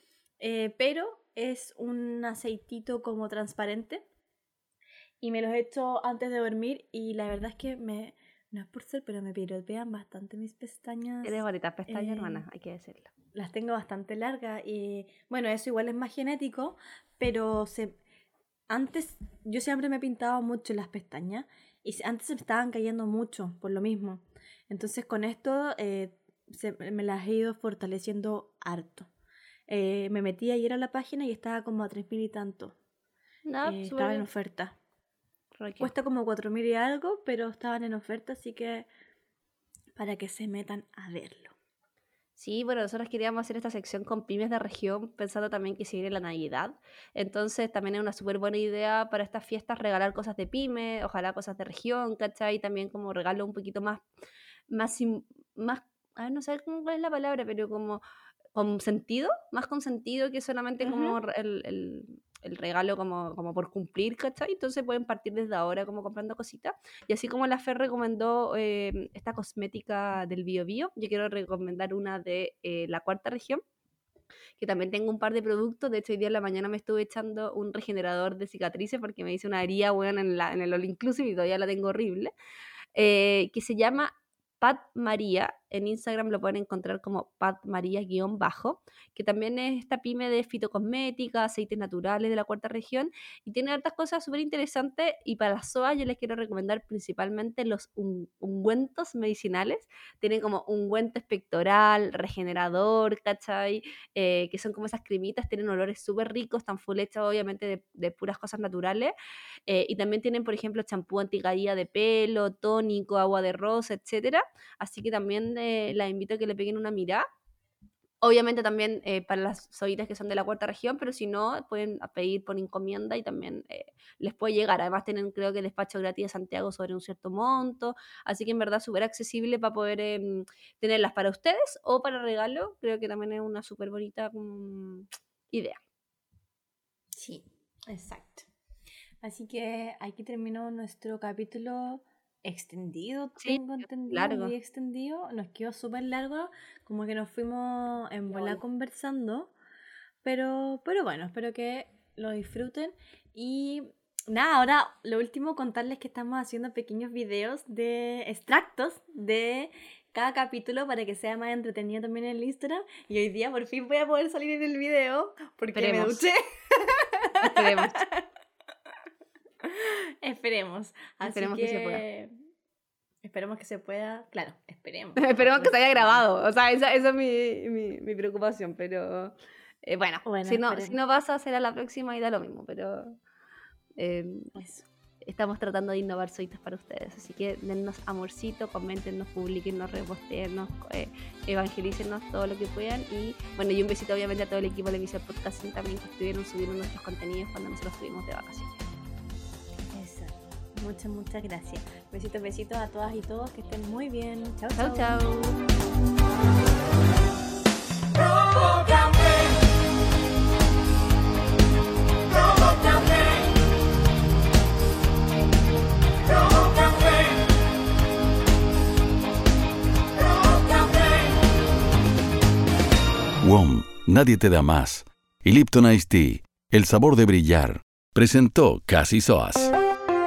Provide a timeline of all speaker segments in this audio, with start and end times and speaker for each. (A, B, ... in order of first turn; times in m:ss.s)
0:00.4-0:04.0 A
0:05.2-0:12.4 A
0:11.2-0:13.1 B
0:13.3-0:18.0 A
0:18.7-0:29.1 A
0:29.7-0:32.8 A
0:33.4-0:34.2 B
0:33.6-0:34.8 A
0:35.5-0:35.9 B
0:35.8-0:38.9 A
0:40.0-0:41.5 A
0:42.4-0:54.0 B
0:54.7-0:58.0 B
0:58.5-1:13.6 B
1:00.8-1:01.2 A
1:14.6-1:22.3 B
1:23.0-1:49.1 B
1:49.7-1:57.2 B
1:58.2-2:15.8 B
2:17.1-2:18.5 A
2:19.2-2:29.5 A
2:23.4-2:24.5 B
2:30.2-2:48.2 A
2:45.7-2:46.2 B
2:47.4-2:48.0 B
2:49.6-2:52.3 A
2:51.2-2:52.0 B
2:53.2-2:56.2 A
2:55.2-3:03.2 B
3:00.2-3:01.0 A
3:04.0-3:04.6 B
3:04.6-3:04.8 A
3:05.2-3:18.8 B
3:19.9-3:25.2 A
3:24.8-3:25.6 B
3:43.4-3:49.7 C